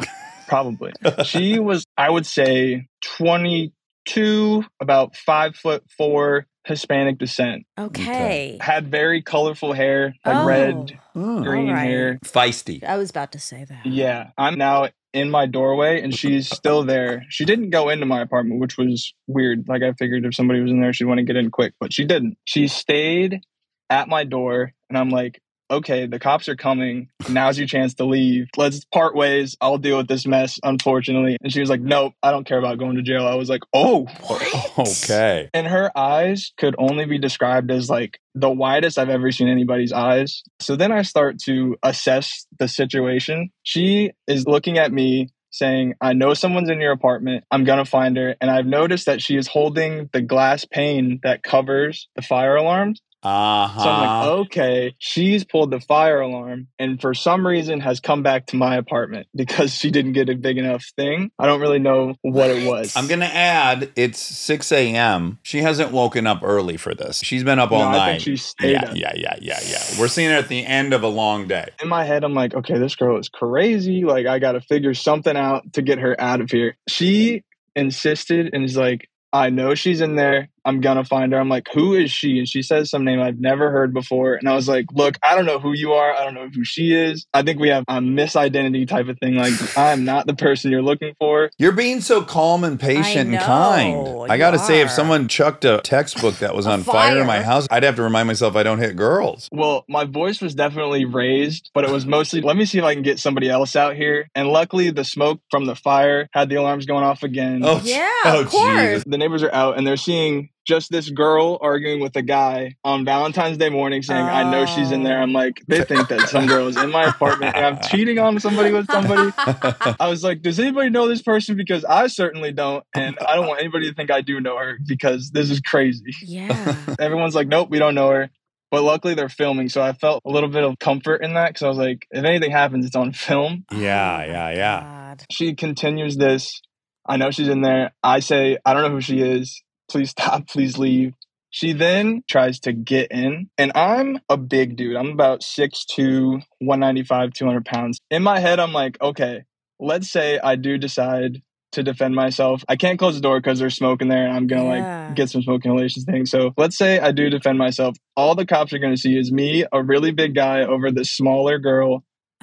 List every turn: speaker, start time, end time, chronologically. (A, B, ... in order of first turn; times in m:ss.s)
0:00.5-0:07.7 A
0:01.1-0:01.6 B
0:07.8-0:08.6 C
0:07.9-0:08.4 B
0:08.6-0:12.2 A
0:10.2-0:12.2 C
0:10.3-0:10.6 B
0:11.2-0:11.5 B
0:12.2-0:12.8 B
0:12.8-0:14.1 C
0:13.8-0:34.2 A
0:34.2-0:35.2 C
0:34.3-0:35.5 B
0:35.5-0:53.0 A
0:53.2-0:54.3 B
0:53.8-1:03.1 A
1:02.3-1:03.1 C
1:02.9-1:11.7 B
1:07.7-1:09.0 A
1:11.8-1:31.5 A
1:31.6-1:39.5 B
1:32.9-1:35.2 C
1:36.6-1:37.5 C
1:39.5-1:47.8 A
1:47.6-1:49.0 B
1:47.8-1:49.0 C
1:49.0-1:59.4 A
1:54.1-1:55.4 C
1:56.2-1:56.5 B
1:57.1-1:57.5 B
1:58.6-1:59.9 C
1:59.5-1:59.9 B
2:00.0-2:06.2 A
2:06.2-2:07.0 C
2:06.5-2:06.9 B
2:07.0-2:13.7 A
2:13.7-2:14.9 B
2:13.7-2:15.2 C
2:15.3-2:42.0 A
2:34.5-2:35.2 C